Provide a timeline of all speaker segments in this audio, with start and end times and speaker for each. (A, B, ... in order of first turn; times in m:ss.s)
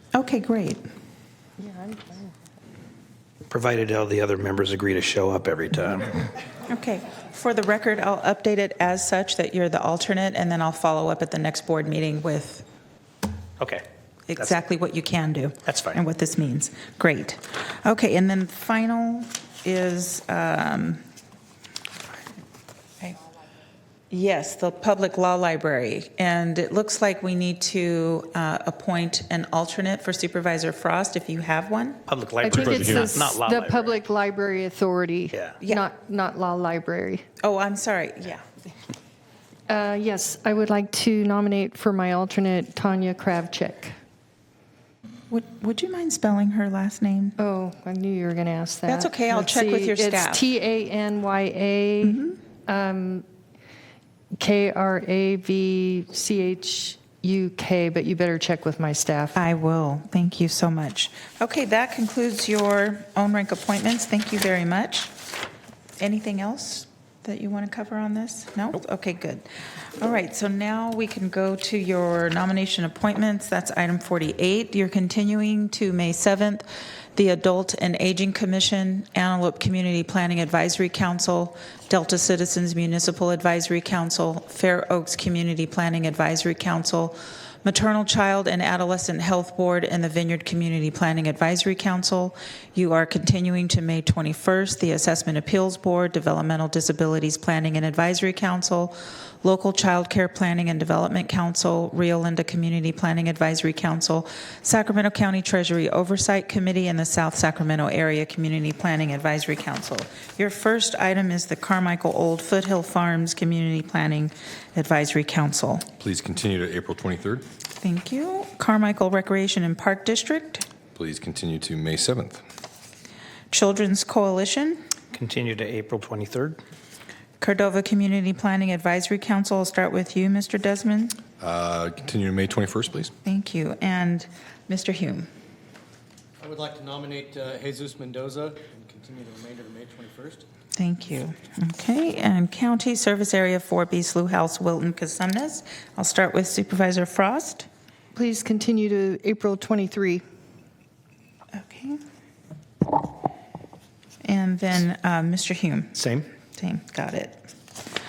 0:00.1-0:00.8 A
0:01.6-0:02.3 B
0:03.5-0:06.2 C
0:06.6-0:12.6 A
0:14.3-0:21.0 A
0:15.6-0:16.0 C
0:24.1-0:32.0 A
0:32.1-0:34.0 C
0:32.4-0:37.2 B
0:32.5-0:33.2 D
0:35.3-0:35.6 C
0:35.6-0:35.9 A
0:37.4-0:38.4 A
0:39.7-0:43.9 B
0:45.3-0:47.4 A
0:47.4-0:53.2 B
0:48.9-0:50.4 A
0:52.0-0:52.4 A
0:54.4-0:59.4 B
0:59.4-1:05.1 A
1:06.0-1:55.9 A
1:56.0-1:57.4 D
1:57.8-2:00.7 A
2:00.9-2:02.4 D
2:03.5-2:04.8 A
2:05.1-2:06.6 C
2:07.4-2:11.2 A
2:11.4-2:13.1 D
2:13.2-2:15.3 A
2:16.4-2:20.4 E
2:20.8-2:27.7 A
2:28.2-2:30.2 B
2:31.5-2:32.0 A
2:34.2-2:35.9 A
2:36.6-2:37.4 A